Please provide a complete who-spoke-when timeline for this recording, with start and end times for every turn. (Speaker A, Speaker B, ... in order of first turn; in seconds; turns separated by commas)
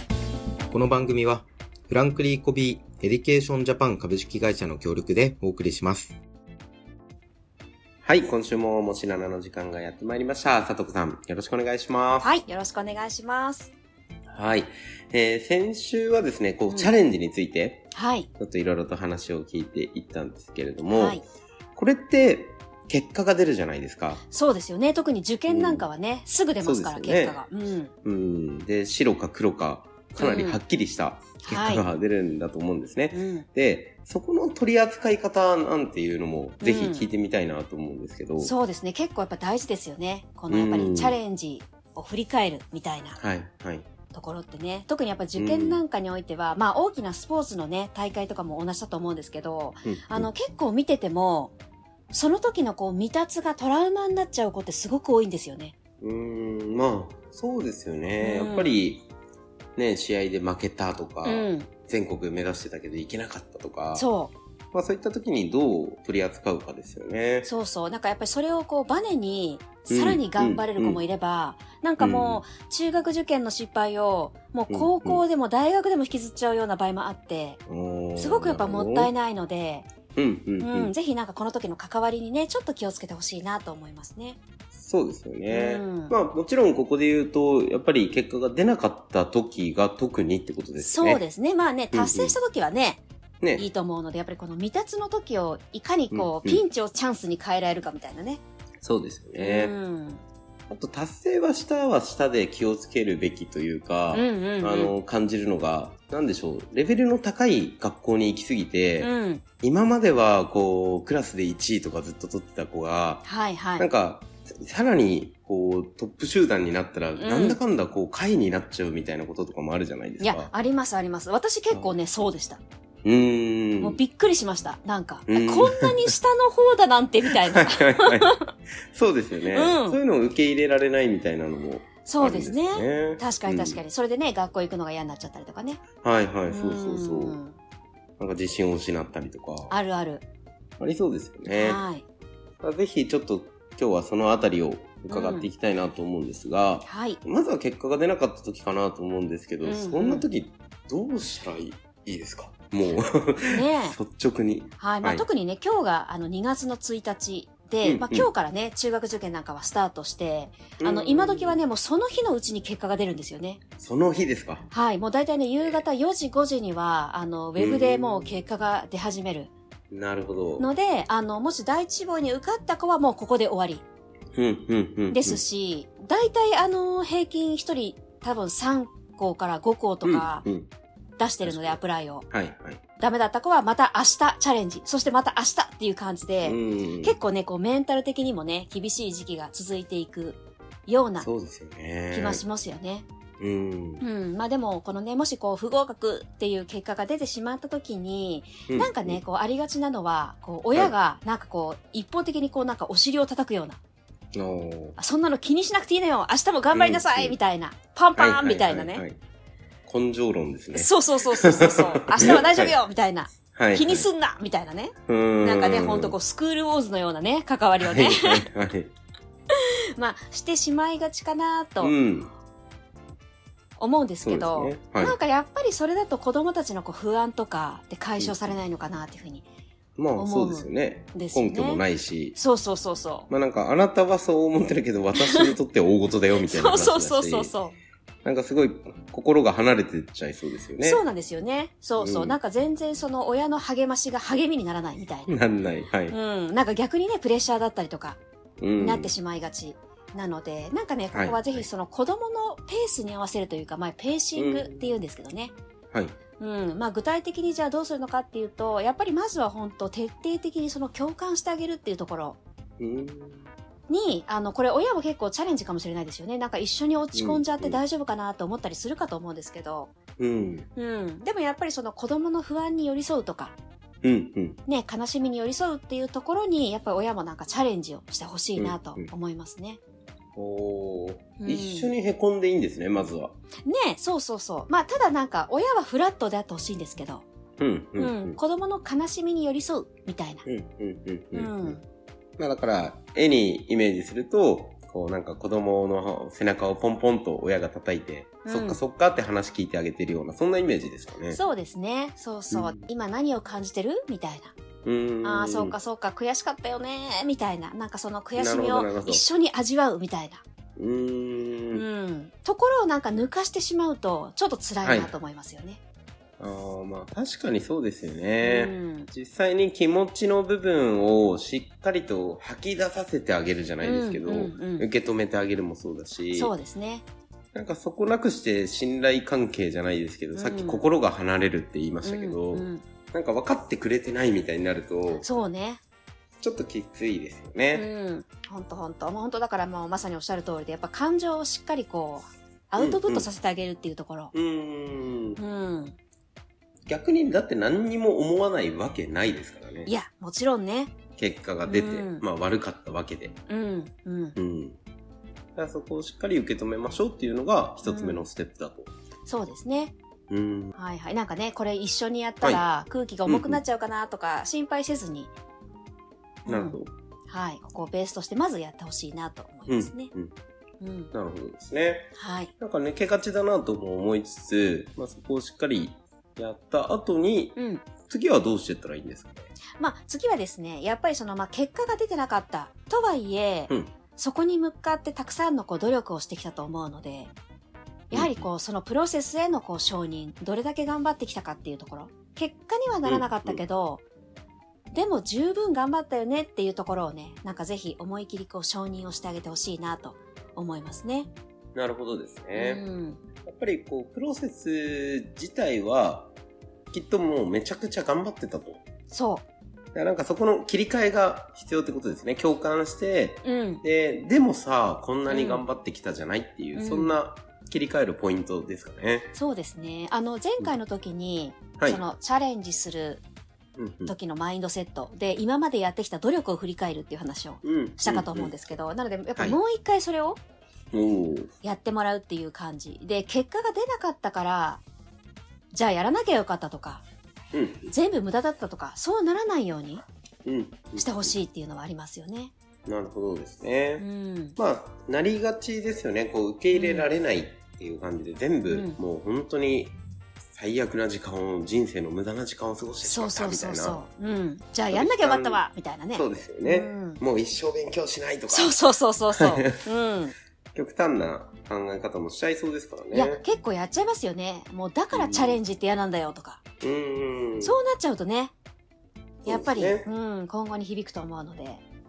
Speaker A: 0.7-6.2, Speaker A: 8.0-12.3, Speaker B: 12.2-13.7, Speaker A: 14.3-17.9, Speaker B: 17.9-18.3, Speaker A: 18.4-21.2, Speaker B: 20.8-21.2, Speaker A: 21.8-24.2, Speaker B: 24.3-27.9, Speaker A: 25.5-25.9, Speaker A: 26.6-27.4, Speaker A: 28.0-38.5, Speaker B: 30.2-30.6, Speaker B: 31.4-31.8, Speaker B: 33.1-33.5, Speaker B: 36.6-37.1, Speaker B: 38.4-43.2, Speaker A: 40.5-41.2, Speaker A: 43.2-43.9, Speaker B: 44.1-51.5, Speaker A: 45.4-45.8, Speaker A: 49.8-50.3, Speaker B: 52.1-55.7, Speaker A: 56.0-59.1, Speaker B: 58.2-58.8, Speaker A: 59.8-64.0, Speaker B: 61.2-61.7, Speaker B: 63.9-64.3, Speaker A: 64.7-67.5, Speaker B: 67.4-77.6, Speaker A: 69.9-71.0, Speaker A: 72.0-72.4, Speaker A: 74.7-75.2, Speaker A: 77.7-79.1, Speaker B: 78.2-79.9, Speaker A: 80.2-80.9, Speaker B: 80.6-84.4, Speaker A: 84.7-91.2, Speaker B: 85.5-86.2, Speaker B: 90.8-93.0, Speaker A: 91.9-92.4, Speaker A: 93.4-93.7, Speaker B: 93.5-98.4, Speaker A: 96.1-96.6, Speaker A: 98.8-99.7, Speaker B: 99.4-100.2, Speaker A: 100.7-109.1, Speaker B: 104.1-104.9, Speaker B: 109.0-109.4, Speaker A: 109.6-113.2, Speaker B: 113.2-113.9, Speaker A: 113.8-120.5, Speaker B: 117.2-117.6, Speaker B: 120.2-122.6, Speaker A: 123.0-124.0, Speaker B: 123.8-128.5, Speaker A: 125.3-126.0, Speaker A: 127.3-128.3, Speaker A: 128.9-133.8, Speaker B: 129.5-130.0, Speaker B: 132.0-135.8, Speaker A: 136.0-137.4, Speaker B: 136.5-137.6, Speaker A: 138.2-139.7, Speaker B: 139.7-140.2, Speaker A: 140.8-141.8, Speaker B: 141.5-142.0, Speaker A: 142.6-155.2, Speaker B: 145.1-145.5, Speaker B: 146.8-147.2, Speaker B: 149.6-150.3, Speaker B: 153.5-154.0, Speaker B: 154.8-163.6, Speaker A: 157.8-158.3, Speaker A: 160.8-161.6, Speaker A: 163.8-164.7, Speaker B: 164.7-169.5, Speaker A: 165.6-165.8, Speaker A: 167.6-168.4, Speaker A: 169.9-170.7, Speaker B: 170.6-173.8, Speaker A: 174.3-175.4, Speaker B: 175.1-180.4, Speaker A: 180.0-180.7, Speaker B: 181.2-182.2, Speaker A: 181.4-182.8, Speaker B: 183.0-191.3, Speaker A: 186.4-187.2, Speaker A: 191.2-192.4, Speaker B: 192.1-193.1, Speaker A: 193.4-194.0, Speaker B: 194.0-203.8, Speaker A: 198.7-199.2, Speaker A: 204.3-205.0, Speaker B: 205.0-209.0, Speaker A: 206.7-207.4, Speaker A: 208.2-209.2, Speaker A: 209.9-212.8, Speaker B: 210.7-218.5, Speaker A: 213.5-214.1, Speaker A: 215.1-216.2, Speaker A: 217.8-218.9, Speaker B: 219.6-221.9, Speaker A: 221.8-222.3, Speaker B: 223.8-229.4, Speaker A: 224.2-225.1, Speaker A: 228.2-228.6, Speaker A: 230.0-232.4, Speaker B: 230.2-231.8, Speaker B: 232.3-233.3, Speaker A: 233.3-237.5, Speaker B: 235.2-235.5, Speaker B: 236.4-237.8, Speaker A: 238.2-241.0, Speaker B: 240.8-245.4, Speaker A: 242.0-242.4, Speaker A: 245.3-246.1, Speaker B: 246.1-248.2, Speaker A: 248.6-249.1, Speaker B: 248.7-255.5, Speaker A: 251.1-251.6, Speaker A: 254.3-255.0, Speaker B: 256.4-262.4, Speaker A: 262.8-263.5, Speaker B: 263.9-269.9, Speaker A: 267.1-267.8, Speaker A: 270.2-270.7, Speaker B: 270.8-273.6, Speaker A: 274.0-274.6, Speaker B: 274.6-279.8, Speaker A: 278.6-279.1, Speaker A: 280.4-283.3, Speaker B: 281.4-281.9, Speaker B: 283.6-287.2, Speaker A: 287.6-288.4, Speaker B: 288.0-290.4, Speaker A: 290.4-291.8, Speaker B: 291.3-291.8, Speaker A: 292.4-301.4, Speaker B: 298.4-298.8, Speaker B: 301.3-304.5, Speaker A: 302.5-302.9, Speaker A: 304.8-305.8, Speaker B: 305.2-310.4, Speaker A: 308.4-309.2, Speaker A: 310.8-311.8, Speaker B: 311.7-315.8, Speaker A: 314.8-315.1, Speaker A: 316.4-326.5, Speaker B: 318.4-319.1, Speaker B: 323.8-324.9, Speaker B: 326.3-327.0, Speaker A: 327.5-335.2, Speaker B: 330.3-330.8, Speaker B: 332.0-332.8, Speaker B: 335.1-335.8, Speaker A: 336.4-337.9, Speaker B: 337.7-344.3, Speaker A: 342.8-343.3, Speaker A: 344.3-345.4, Speaker B: 345.4-345.9, Speaker A: 346.9-349.9, Speaker B: 349.9-350.9, Speaker A: 351.2-353.4, Speaker B: 351.6-352.2, Speaker B: 353.5-354.4, Speaker A: 354.4-354.8, Speaker A: 355.6-358.9, Speaker B: 357.8-358.2, Speaker B: 359.2-359.9, Speaker A: 360.3-360.8, Speaker B: 360.7-365.3, Speaker A: 363.2-363.6, Speaker B: 366.4-370.1, Speaker A: 366.5-366.9, Speaker A: 369.7-370.3, Speaker B: 370.8-371.1, Speaker A: 371.1-379.5, Speaker B: 372.1-372.5, Speaker B: 377.6-377.8, Speaker B: 379.8-387.3, Speaker A: 388.1-388.4, Speaker B: 388.1-394.0, Speaker A: 393.0-393.6, Speaker B: 394.9-401.3, Speaker A: 401.7-402.8, Speaker B: 402.5-403.2, Speaker A: 403.4-406.3, Speaker A: 406.9-408.8, Speaker B: 409.1-409.4, Speaker A: 409.9-419.3, Speaker B: 413.4-413.8, Speaker B: 415.3-415.6, Speaker B: 416.7-417.2, Speaker B: 419.3-423.2, Speaker A: 423.8-424.1, Speaker B: 424.1-430.4, Speaker A: 427.6-428.5, Speaker A: 430.9-431.5, Speaker B: 431.6-434.8, Speaker B: 435.7-437.0, Speaker A: 437.5-437.9, Speaker B: 437.9-440.0, Speaker A: 440.4-441.3, Speaker B: 440.9-442.5, Speaker A: 442.9-444.0, Speaker B: 444.0-444.6, Speaker A: 444.6-449.9, Speaker B: 446.7-447.1, Speaker B: 448.7-449.0, Speaker A: 450.5-454.0, Speaker B: 453.0-457.2, Speaker A: 454.9-455.6, Speaker A: 456.1-458.8, Speaker B: 458.5-460.3, Speaker A: 459.3-459.7, Speaker A: 460.7-463.4, Speaker B: 463.1-466.6, Speaker A: 465.1-465.6, Speaker A: 466.8-467.8, Speaker B: 467.6-468.5, Speaker A: 469.4-470.1, Speaker B: 469.4-471.8